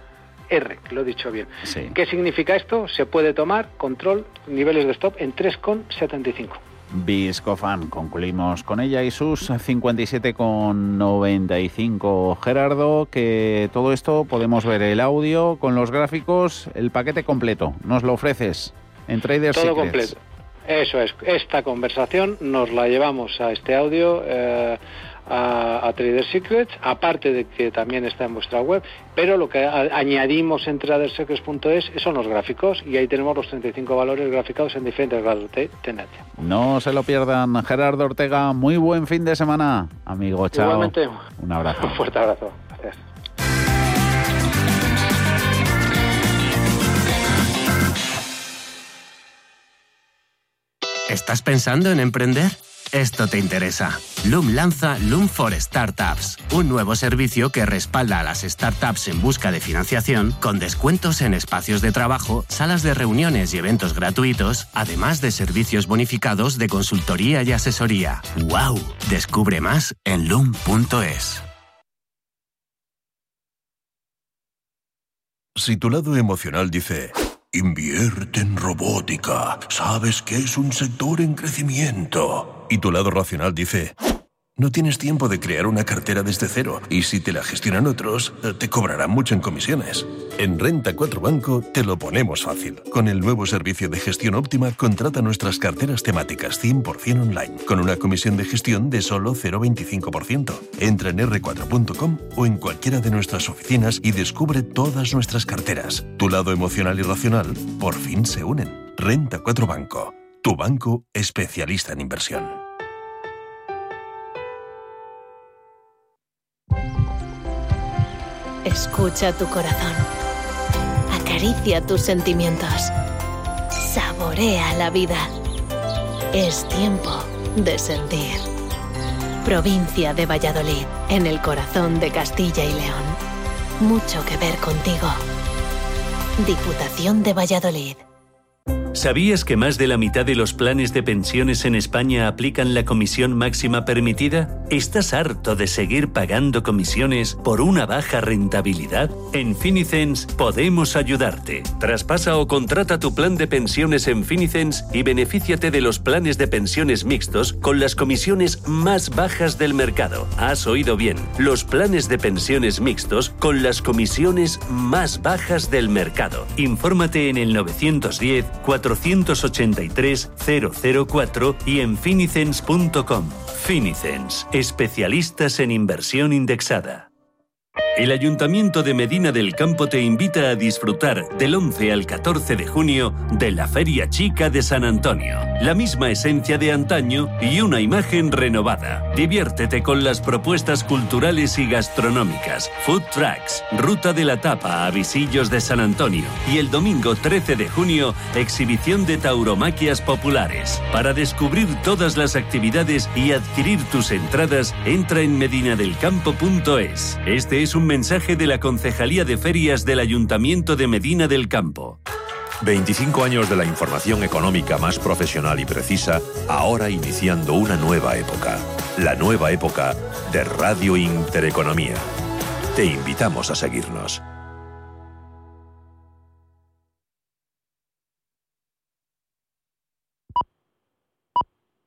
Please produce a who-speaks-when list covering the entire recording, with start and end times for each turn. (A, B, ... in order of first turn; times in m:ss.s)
0:00.5-0:06.6 A
0:01.6-0:02.0 B
0:06.9-0:20.2 B
0:19.5-0:36.2 A
0:36.4-0:42.0 B
0:40.5-0:41.2 A
0:41.8-0:43.0 A
0:51.1-1:11.4 C
1:15.5-1:23.9 D
1:24.6-1:52.6 D
1:58.6-2:00.0 E
2:01.1-2:02.9 E
2:03.8-2:05.3 E
2:06.3-2:08.4 E
2:09.4-2:13.2 E
2:13.8-2:15.2 E
2:16.4-2:18.0 E
2:18.9-2:57.1 F
2:58.0-3:32.0 F
3:32.6-3:42.1 G
3:42.7-3:44.2 G